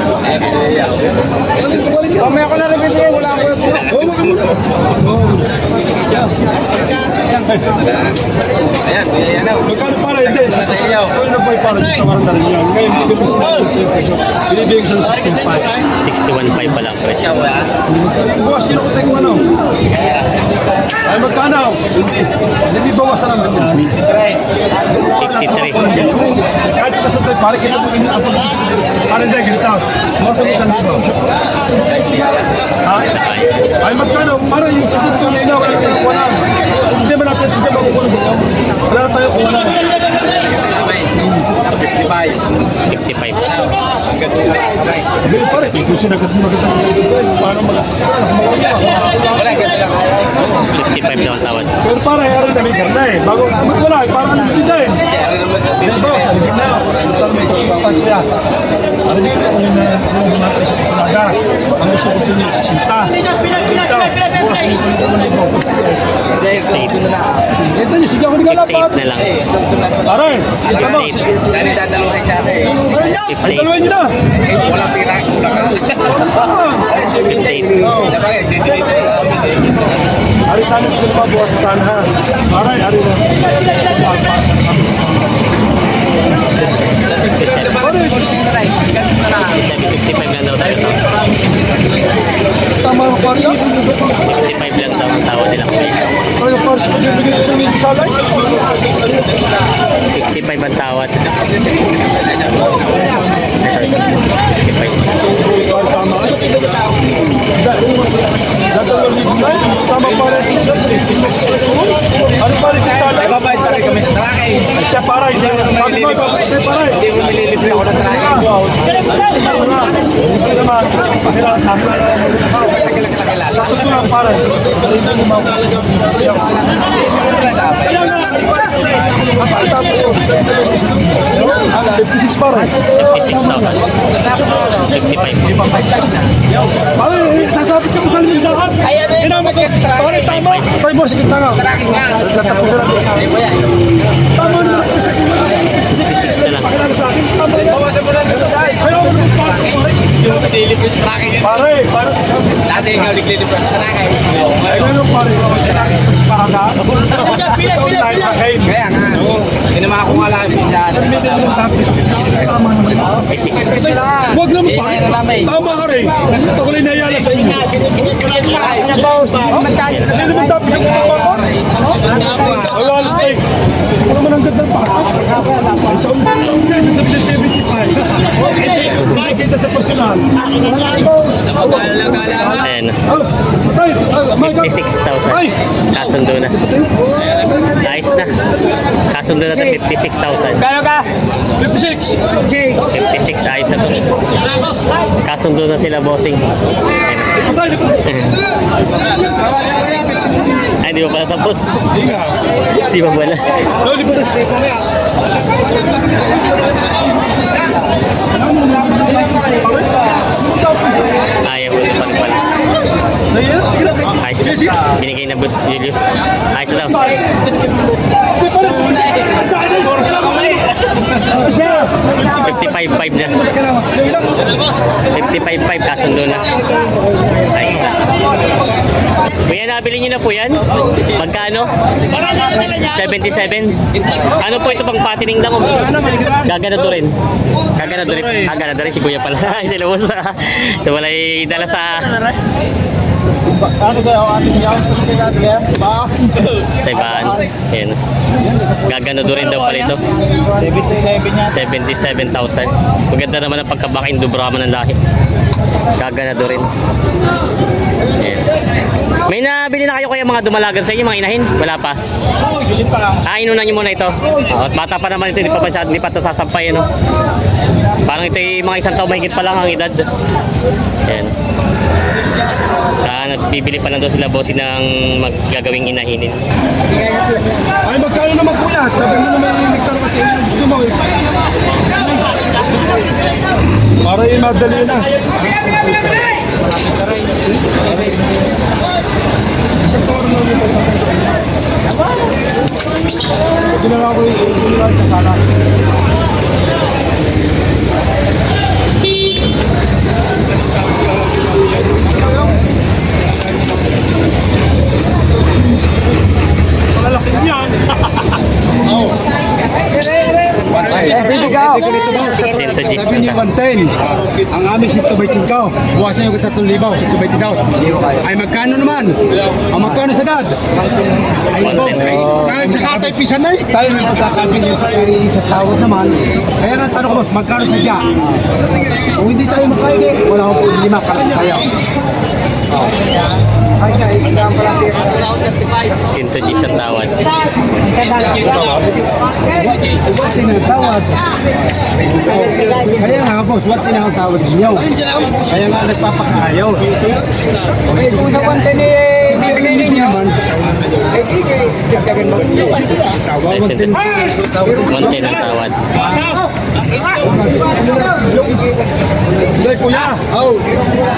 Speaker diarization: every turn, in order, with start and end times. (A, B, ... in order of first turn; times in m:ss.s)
0:00.2-0:01.2 A
0:02.0-0:03.9 B
0:03.8-0:06.3 C
0:07.4-0:07.8 C
0:08.8-0:09.7 A
0:09.6-0:15.7 C
0:10.2-0:11.2 A
0:13.0-0:13.6 A
0:15.2-0:15.9 A
0:16.0-0:17.5 D
0:17.2-0:17.7 A
0:17.9-0:19.5 C
0:21.0-0:23.9 C
0:23.9-0:24.4 A
0:25.1-0:31.1 C
0:25.2-0:25.9 D
0:31.7-0:32.5 A
0:32.8-0:33.2 C
0:33.2-0:33.6 D
0:33.8-0:39.8 C
0:40.0-0:42.5 A
0:42.9-0:43.8 D
0:43.9-0:45.2 A
0:45.2-0:49.6 C
0:49.4-0:50.5 A
0:50.7-0:51.8 D
0:51.8-0:55.1 C
0:55.1-0:56.8 A
0:55.8-0:58.3 C
0:59.0-1:06.0 C
1:06.3-1:07.5 A
1:06.4-1:07.0 D
1:07.6-1:09.1 C
1:08.3-1:09.4 D
1:09.2-1:12.8 A
1:10.1-1:11.3 C
1:10.7-1:11.2 D
1:13.0-1:13.8 D
1:13.4-1:14.2 C
1:14.5-1:16.2 A
1:16.1-1:17.0 C
1:16.9-1:20.0 A
1:17.2-1:17.9 D
1:17.7-1:18.2 C
1:20.5-1:25.3 C
1:26.8-1:29.5 A
1:27.4-1:27.8 D
1:27.8-1:28.2 C
1:29.5-1:31.0 D
1:30.9-1:31.6 A
1:32.8-1:33.6 C
1:34.2-1:36.1 D
1:36.4-1:38.4 C
1:38.8-1:39.5 A
1:40.1-1:41.2 D
1:42.8-1:43.5 C
1:43.6-1:45.1 D
1:45.2-1:46.5 C
1:47.5-1:48.0 C
1:48.7-1:53.4 C
1:53.2-1:54.7 A
1:54.7-1:57.0 C
1:55.5-1:56.3 A
1:56.9-1:59.1 A
1:58.0-1:58.5 C
1:59.1-2:02.7 C
2:02.7-2:04.0 A
2:03.5-2:06.6 C
2:06.6-2:09.3 A
2:07.9-2:13.8 C
2:11.6-2:12.0 A
2:12.9-2:13.8 D
2:14.0-2:14.9 A
2:14.7-2:15.8 D
2:15.4-2:15.9 C
2:15.6-2:16.4 A
2:16.9-2:21.6 C
2:18.8-2:20.6 A
2:21.6-2:24.0 A
2:22.2-2:23.2 C
2:24.4-2:27.9 C
2:26.0-2:26.8 D
2:27.8-2:31.5 A
2:28.8-2:30.4 C
2:31.4-2:33.2 C
2:32.7-2:34.9 A
2:34.6-2:39.6 C
2:38.7-2:41.6 A
2:40.9-2:47.7 C
2:43.3-2:43.9 D
2:43.9-2:45.5 A
2:48.1-2:49.0 A
2:48.4-2:53.4 C
2:49.6-2:50.1 A
2:50.8-2:52.8 A
2:54.0-3:05.5 C
3:02.6-3:03.0 D
3:04.4-3:06.6 D
3:06.4-3:07.5 C
3:07.7-3:08.3 D
3:09.1-3:10.7 D
3:10.7-3:11.1 C
3:11.6-3:12.2 C
3:12.8-3:14.0 D
3:15.2-3:16.4 D
3:16.9-3:17.3 D
3:17.4-3:18.0 C
3:18.0-3:18.4 D
3:19.2-3:20.5 A
3:20.8-3:21.8 D
3:21.9-3:22.4 C
3:22.8-3:23.6 D
3:23.8-3:24.5 C
3:28.4-3:31.2 C
3:29.1-3:30.3 A
3:31.4-3:32.4 D
3:33.3-3:34.8 C
3:34.2-3:37.2 D
3:36.8-3:37.3 C
3:38.4-3:44.5 C
3:38.9-3:40.6 A
3:42.3-3:43.4 D
3:45.1-3:46.6 D
3:47.5-3:47.9 D
3:49.5-3:51.7 D
3:52.5-3:57.2 D
3:57.8-4:02.4 D
4:03.5-4:06.5 A
4:06.8-4:08.0 D
4:08.8-4:10.0 D
4:10.6-4:11.3 A
4:11.4-4:15.0 D
4:16.0-4:16.7 D
4:18.2-4:18.5 D
4:19.2-4:22.0 D
4:22.7-4:23.1 A
4:23.2-4:26.9 D
4:28.1-4:30.0 D
4:31.1-4:31.3 D
4:33.0-4:36.4 D
4:37.8-4:41.1 C
4:44.0-4:46.2 C
4:49.8-4:51.2 C
4:53.7-4:55.4 C
5:06.9-5:08.2 C
5:08.8-5:09.2 C
5:10.6-5:20.6 B
5:10.7-5:11.9 C
5:12.4-5:13.4 D
5:21.4-5:28.3 B
5:21.5-5:22.4 D
5:24.2-5:25.1 C
5:29.1-5:31.7 B
5:33.9-5:35.4 B
5:36.0-5:37.2 D
5:37.9-5:38.6 B
5:38.3-5:38.9 C
5:39.5-5:41.1 B
5:42.1-5:46.9 B
5:47.9-5:50.5 B
5:51.1-5:55.3 B
5:53.4-5:54.0 D
5:54.9-5:55.8 D
5:56.0-5:56.3 B
5:57.2-5:57.7 B
5:57.8-5:58.3 C
5:59.5-6:00.7 C